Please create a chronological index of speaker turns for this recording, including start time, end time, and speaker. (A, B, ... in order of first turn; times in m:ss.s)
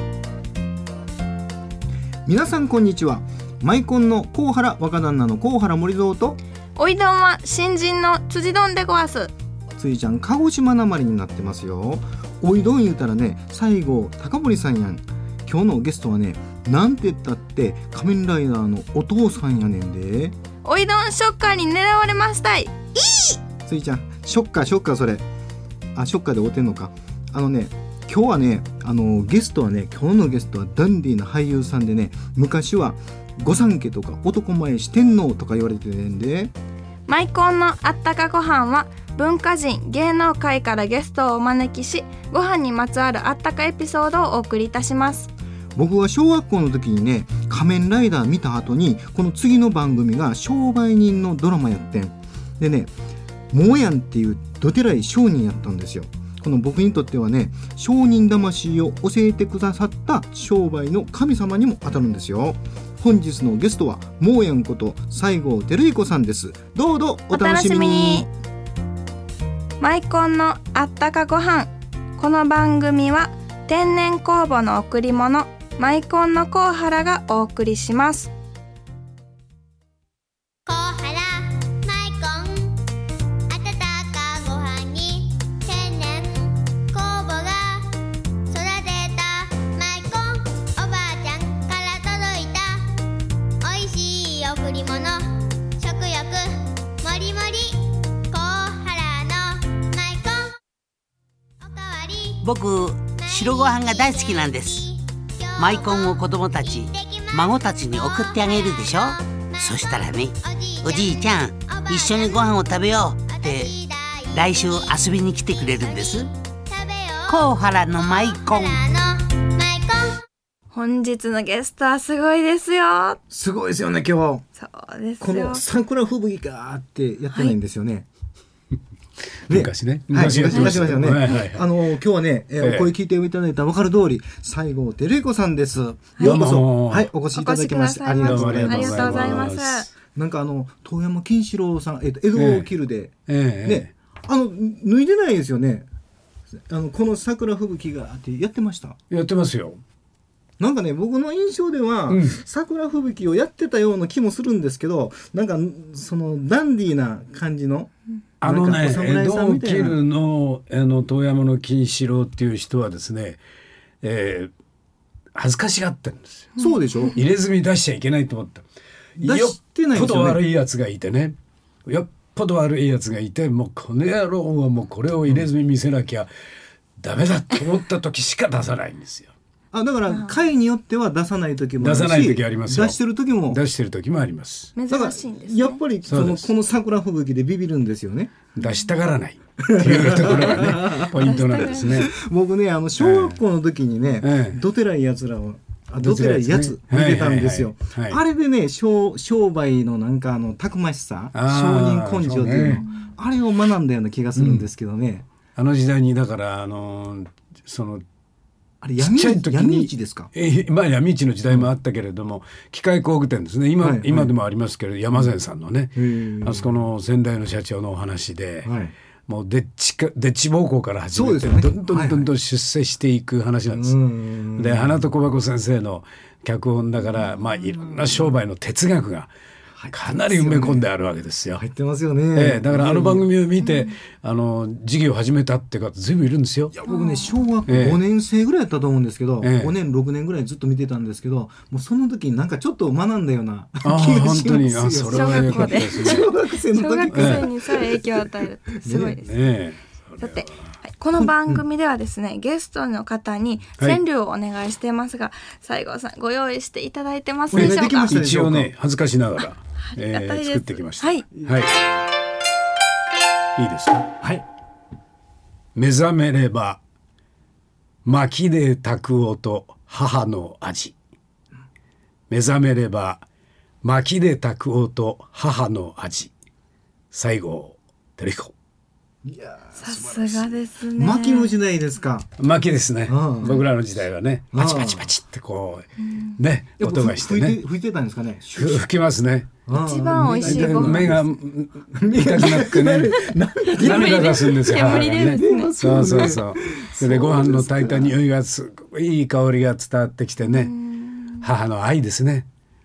0:02.2-0:06.4 A
0:06.8-0:09.3 B
0:09.8-0:20.3 A
0:20.6-0:23.4 B
0:23.6-0:25.2 A
0:25.9-0:36.5 A
0:37.1-0:45.3 B
0:45.8-0:52.9 A
0:53.5-1:08.3 A
1:07.3-1:08.3 B
1:09.8-1:18.3 B
1:20.6-1:22.7 C
1:23.5-1:27.9 C
1:28.5-1:32.8 C
1:33.6-1:35.2 C
1:35.8-1:36.5 C
1:37.0-1:37.8 C
1:38.3-1:40.5 C
1:41.6-1:42.4 C
1:42.4-1:44.8 D
1:43.1-2:00.2 C
1:45.6-1:53.7 D
1:54.3-1:56.3 D
1:57.3-1:58.8 D
2:00.7-2:03.2 B
2:03.3-2:04.4 A
2:04.6-2:05.6 B
2:05.2-2:08.1 A
2:09.5-2:11.6 E
2:09.5-2:19.5 A
2:10.5-2:11.4 B
2:12.6-2:12.9 E
2:16.2-2:17.1 E
2:17.3-2:19.9 B
2:18.2-2:19.9 E
2:20.1-2:25.8 A
2:22.3-2:22.7 E
2:23.3-2:23.9 E
2:26.7-2:29.0 A
2:29.1-2:29.8 E
2:30.6-2:37.9 A
2:32.1-2:32.4 E
2:38.4-2:40.0 A
2:38.4-2:43.4 E
2:44.0-2:44.5 E
2:45.3-2:46.5 E
2:46.6-2:47.1 B
2:46.6-2:47.2 A
2:47.1-2:48.6 E
2:49.2-2:51.3 E
2:49.2-2:50.4 A
2:51.8-2:56.3 E
2:57.0-2:59.3 E
2:59.7-3:03.6 A
3:00.1-3:00.3 B
3:01.8-3:04.8 E
3:04.8-3:05.8 B
3:04.9-3:08.5 A
3:06.0-3:06.5 E
3:08.5-3:12.1 E
3:09.6-3:25.3 A
3:11.1-3:12.1 B
3:13.0-3:13.4 E
3:14.2-3:14.6 E
3:16.0-3:18.2 E
3:21.3-3:22.8 E
3:24.4-3:24.6 E
3:25.5-3:28.0 E
3:28.8-3:30.3 A
3:29.0-3:38.7 E
3:33.8-3:34.3 A
3:36.0-3:36.8 A
3:38.6-3:38.9 A
3:39.3-3:44.0 E
3:41.1-3:42.3 A
3:43.7-3:45.0 A
3:44.6-3:49.3 E
3:48.0-3:48.3 A
3:49.8-3:50.9 A
3:49.9-3:51.6 E
3:51.6-3:53.2 A
3:52.3-3:56.8 E
3:56.7-4:08.2 A
3:56.9-3:57.4 B
3:57.7-3:58.0 E
3:59.4-3:59.7 E
4:03.8-4:06.3 E
4:05.1-4:09.3 B
4:07.1-4:07.4 E
4:08.8-4:09.2 A
4:09.2-4:10.5 E
4:10.2-4:18.1 B
4:11.2-4:11.6 A
4:17.5-4:18.7 A
4:17.5-4:21.8 E
4:19.8-4:21.3 B
4:23.6-4:24.1 E
4:25.7-4:26.8 E
4:28.0-4:30.9 E
4:32.3-4:33.2 E
4:33.8-4:36.3 E
4:37.1-4:38.5 E
4:39.2-4:42.3 A
4:39.8-4:41.5 B
4:42.4-4:47.6 E
4:43.1-4:43.6 A
4:44.5-4:45.1 A
4:46.0-4:46.4 B
4:46.8-4:48.9 A
4:48.6-5:00.7 E
4:49.6-4:51.2 A
4:49.7-4:51.1 B
4:51.9-4:58.1 A
4:53.8-4:55.7 B
5:00.4-5:01.5 B
5:01.4-5:02.5 E